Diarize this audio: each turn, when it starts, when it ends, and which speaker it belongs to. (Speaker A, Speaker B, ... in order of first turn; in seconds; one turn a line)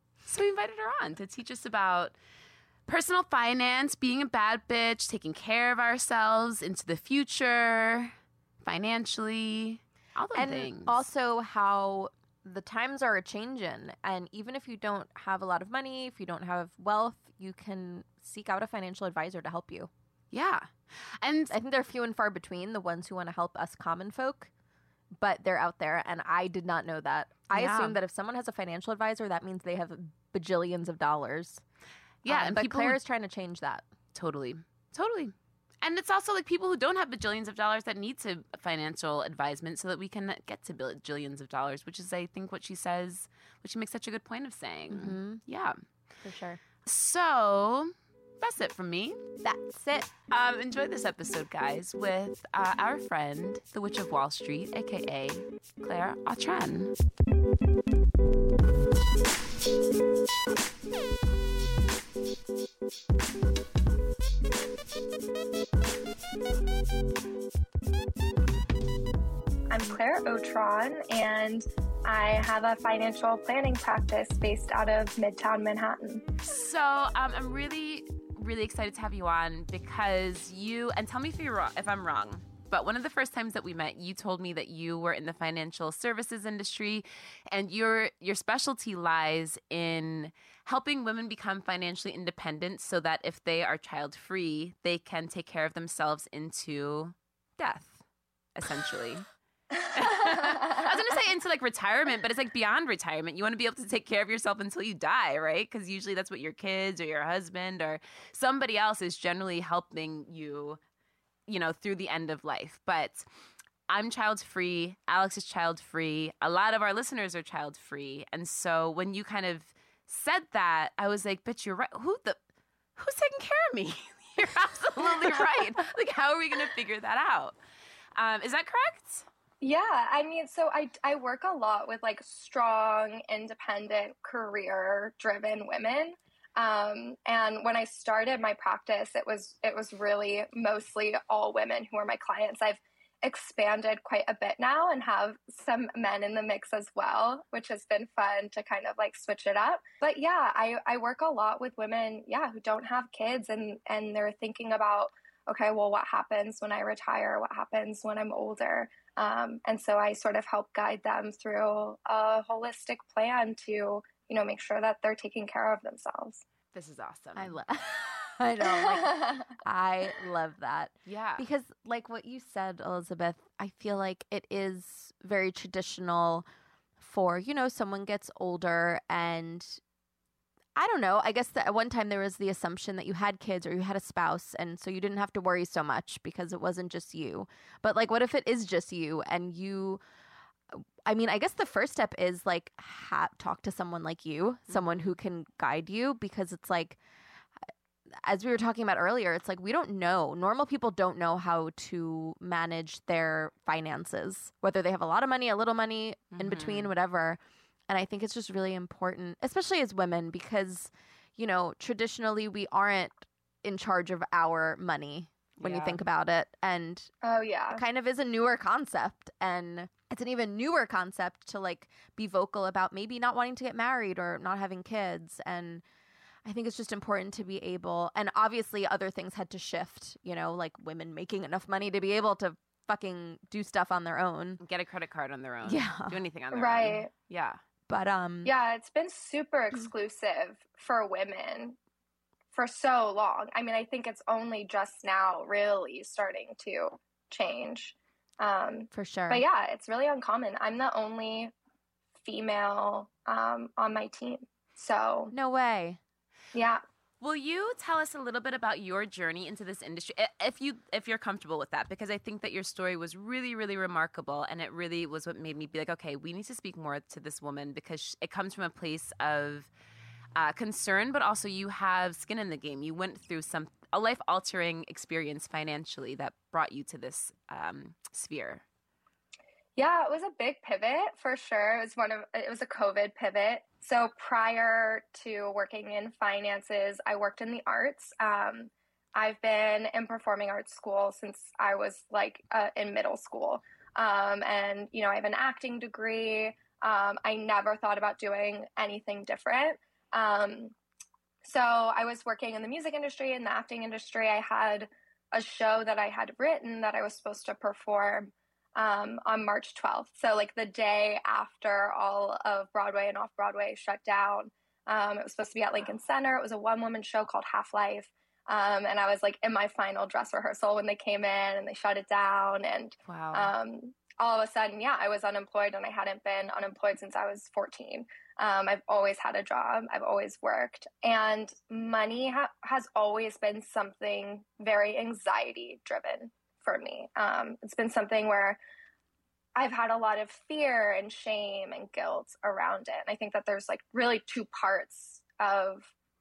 Speaker A: 0.2-2.1
Speaker A: 2.9-11.0
Speaker B: 10.3-19.9
Speaker A: 20.3-21.6
Speaker B: 21.5-24.5
Speaker B: 25.1-31.6
Speaker A: 27.5-28.0
Speaker A: 32.2-33.0
Speaker B: 32.2-33.9
Speaker A: 34.1-45.8
Speaker B: 44.9-45.4
Speaker B: 46.2-46.6
Speaker A: 46.8-49.2
Speaker B: 49.4-50.1
Speaker A: 50.3-56.9
Speaker C: 69.7-76.2
Speaker A: 76.4-98.0
Speaker A: 98.5-99.2
Speaker A: 99.9-110.8
Speaker A: 111.5-113.2
Speaker A: 113.9-122.4
Speaker A: 123.0-127.6
Speaker B: 125.2-125.5
Speaker A: 128.2-129.2
Speaker C: 129.6-166.4
Speaker A: 166.7-167.5
Speaker B: 167.3-176.4
Speaker C: 168.7-169.4
Speaker A: 171.1-171.4
Speaker B: 177.0-179.8
Speaker B: 180.8-190.0
Speaker B: 190.7-197.0
Speaker A: 194.7-195.2
Speaker B: 198.1-217.1
Speaker A: 206.3-206.9
Speaker A: 215.6-216.0
Speaker C: 217.2-217.8
Speaker B: 217.7-225.8
Speaker B: 226.4-234.6
Speaker A: 234.6-237.6
Speaker B: 235.6-236.2
Speaker C: 236.5-237.1
Speaker B: 237.9-238.5
Speaker C: 238.4-241.8
Speaker C: 242.5-251.5
Speaker B: 248.9-249.4
Speaker C: 252.2-255.3
Speaker B: 255.3-256.0
Speaker C: 256.5-256.8
Speaker A: 257.2-269.7
Speaker A: 270.4-278.6
Speaker C: 279.8-300.7
Speaker C: 301.4-338.6
Speaker A: 323.1-323.5
Speaker C: 339.5-345.9